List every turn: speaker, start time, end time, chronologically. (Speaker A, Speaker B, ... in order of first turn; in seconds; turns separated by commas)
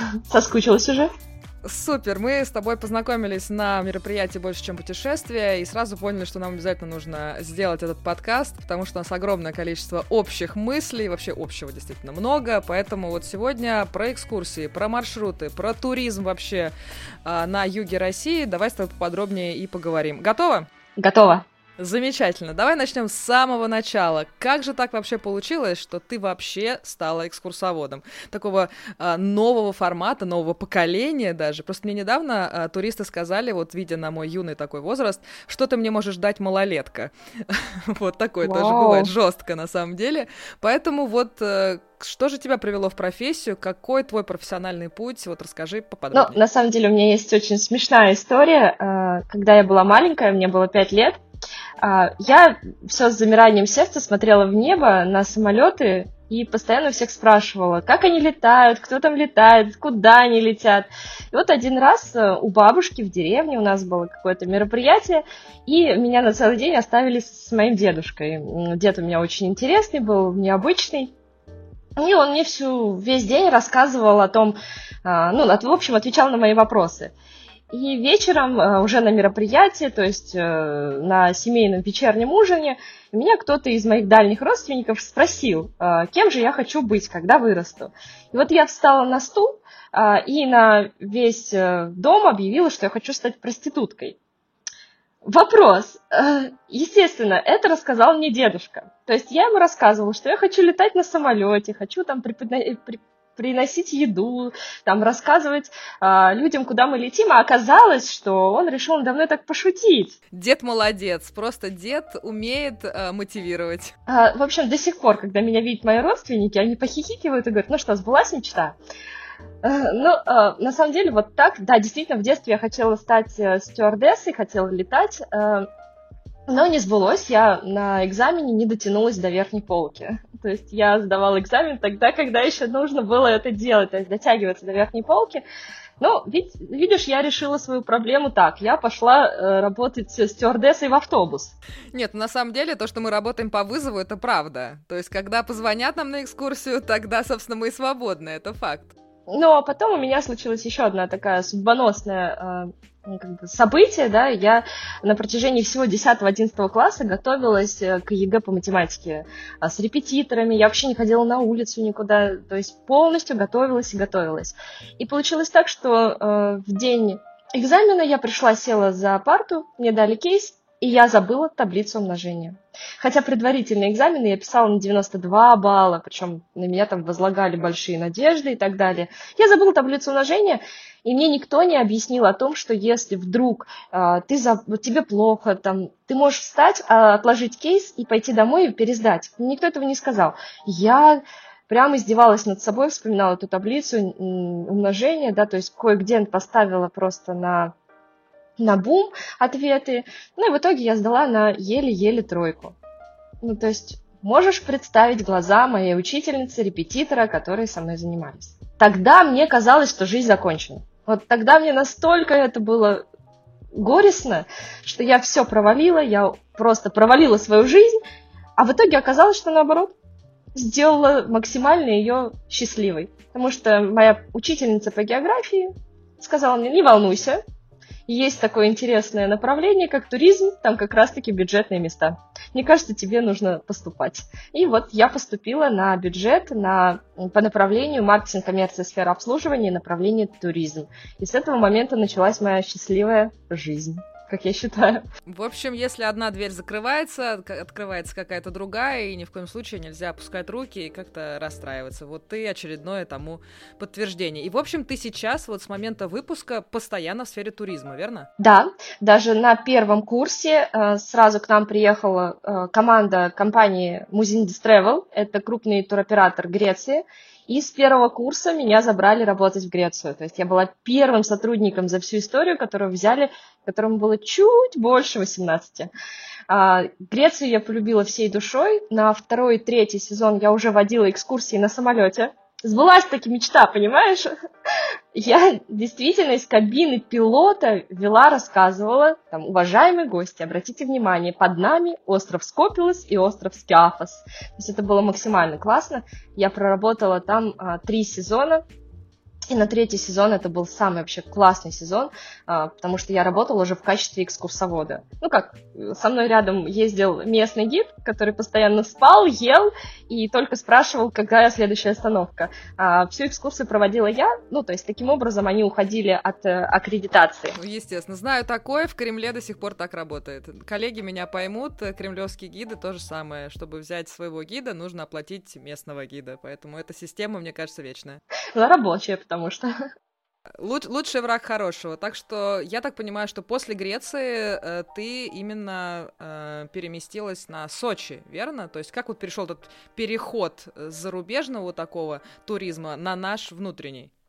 Speaker A: 0.3-1.1, Speaker B: 1.6-16.7, Speaker B: 17.2-20.7, Speaker A: 21.0-21.4, Speaker B: 21.8-46.4, Speaker A: 38.4-39.1, Speaker A: 46.1-51.2, Speaker A: 51.8-71.1, Speaker A: 72.0-77.1, Speaker A: 77.7-94.2, Speaker A: 95.2-110.2, Speaker B: 110.3-113.9, Speaker A: 114.1-118.8, Speaker A: 119.6-125.7, Speaker A: 126.5-135.4, Speaker A: 136.0-141.5, Speaker B: 141.9-148.9, Speaker A: 149.3-197.7, Speaker A: 198.6-202.8, Speaker A: 203.4-213.0, Speaker A: 213.7-217.9, Speaker A: 218.6-219.9, Speaker A: 220.5-227.4, Speaker A: 228.1-245.0, Speaker B: 245.2-258.3, Speaker A: 258.4-275.9, Speaker A: 276.5-284.3, Speaker A: 285.1-298.6, Speaker A: 299.5-317.6, Speaker B: 317.5-328.2, Speaker A: 328.5-329.7, Speaker B: 330.6-344.1